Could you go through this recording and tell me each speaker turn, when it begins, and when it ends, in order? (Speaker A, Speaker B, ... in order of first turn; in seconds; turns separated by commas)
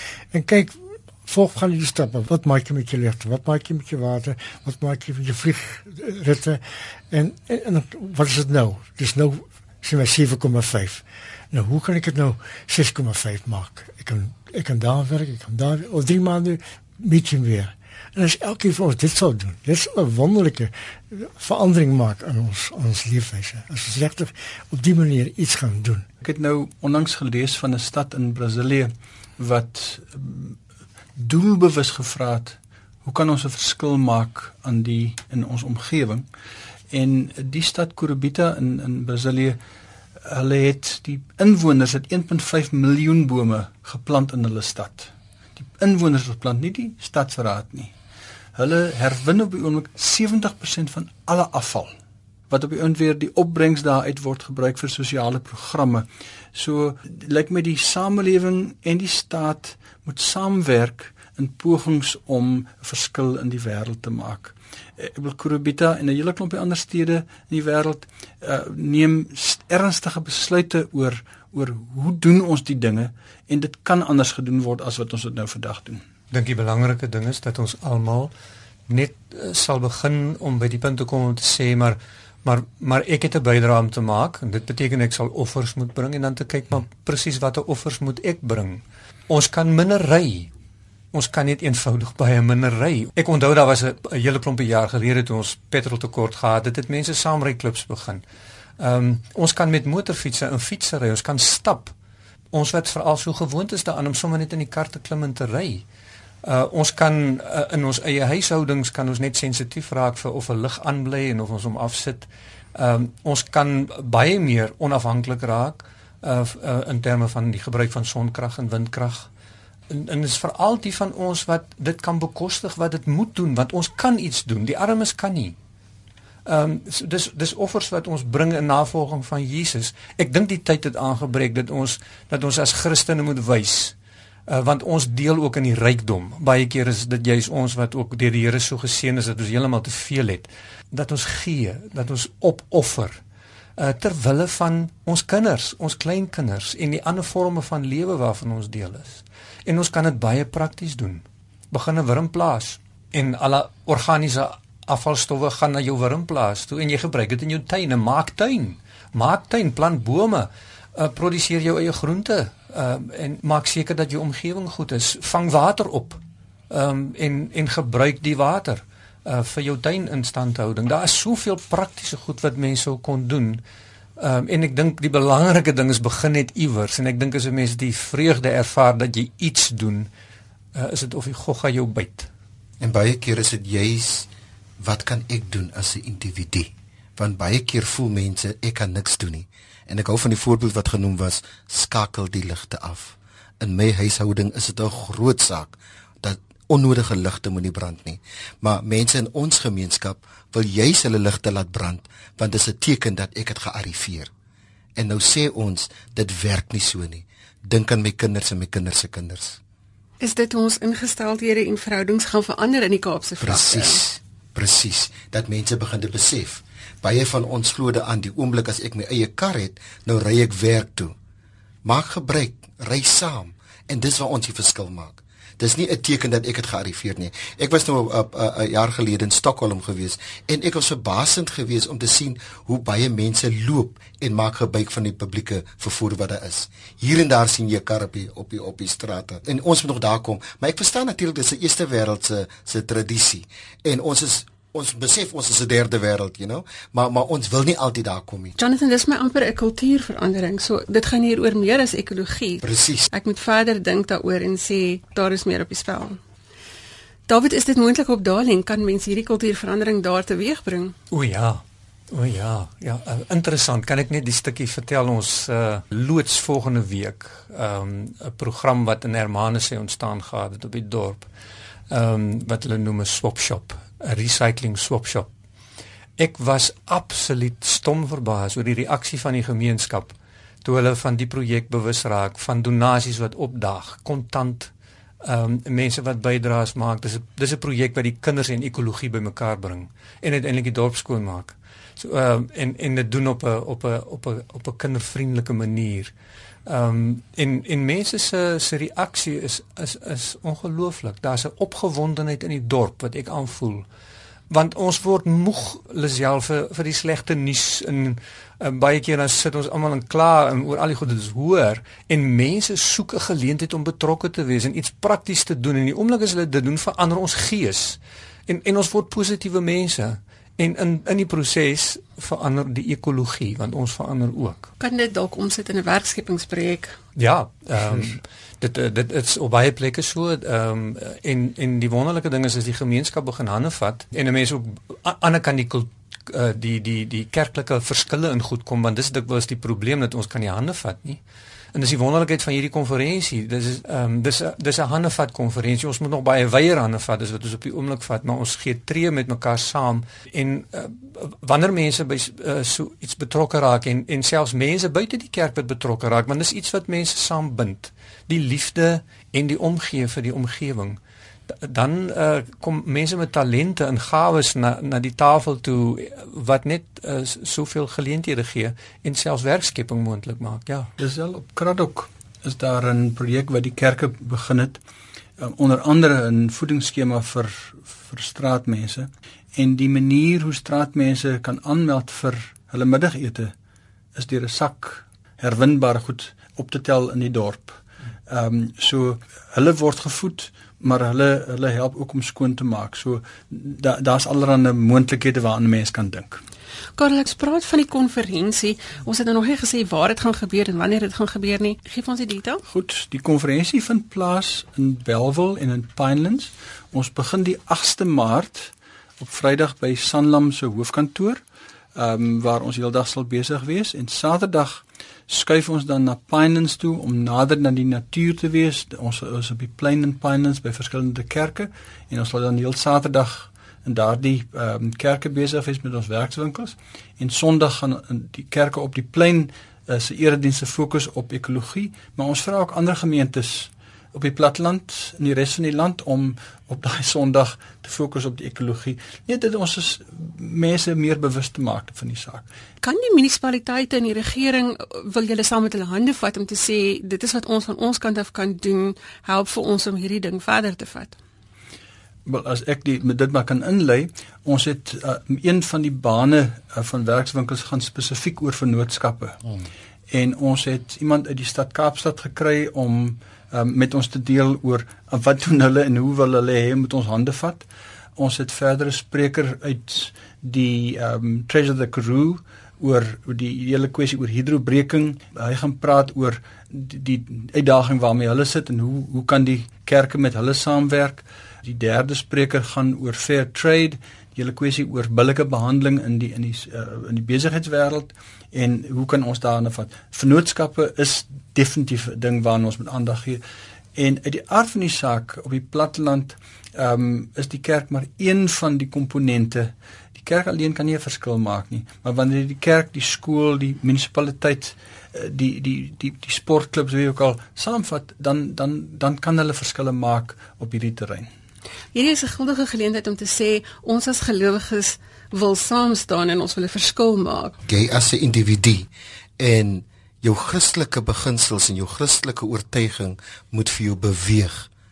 Speaker A: 0.3-26.1, Speaker B: 26.2-30.6, Speaker B: 31.2-36.3, Speaker B: 36.9-39.6, Speaker B: 40.2-47.9, Speaker B: 48.5-51.9, Speaker B: 52.5-76.0, Speaker C: 76.3-78.3, Speaker C: 78.9-90.5, Speaker C: 91.1-98.2, Speaker C: 98.8-101.9, Speaker C: 102.5-105.8, Speaker C: 106.4-119.3, Speaker C: 119.9-125.5, Speaker C: 126.5-133.9, Speaker C: 134.5-143.2, Speaker C: 143.8-173.6, Speaker C: 174.2-180.1, Speaker C: 180.7-182.3, Speaker D: 182.8-184.3, Speaker D: 184.8-204.3, Speaker D: 205.0-209.6, Speaker E: 210.2-214.0, Speaker D: 213.4-221.1, Speaker D: 221.8-248.6, Speaker E: 248.6-256.2, Speaker D: 252.6-253.1, Speaker E: 257.3-260.9, Speaker C: 261.1-271.3, Speaker C: 271.9-275.3, Speaker C: 276.2-284.7, Speaker C: 285.2-296.1, Speaker C: 296.6-303.9, Speaker C: 304.5-324.7, Speaker E: 324.8-327.0, Speaker C: 327.1-341.2, Speaker C: 341.7-361.0, Speaker C: 361.5-370.9, Speaker B: 371.0-374.8, Speaker B: 375.4-383.5, Speaker B: 384.1-396.4, Speaker E: 397.0-402.6, Speaker B: 402.6-411.4, Speaker B: 411.9-442.4, Speaker E: 442.8-451.1, Speaker B: 452.2-459.4, Speaker B: 460.1-493.4, Speaker B: 493.9-511.3, Speaker E: 511.9-517.6, Speaker D: 517.6-524.7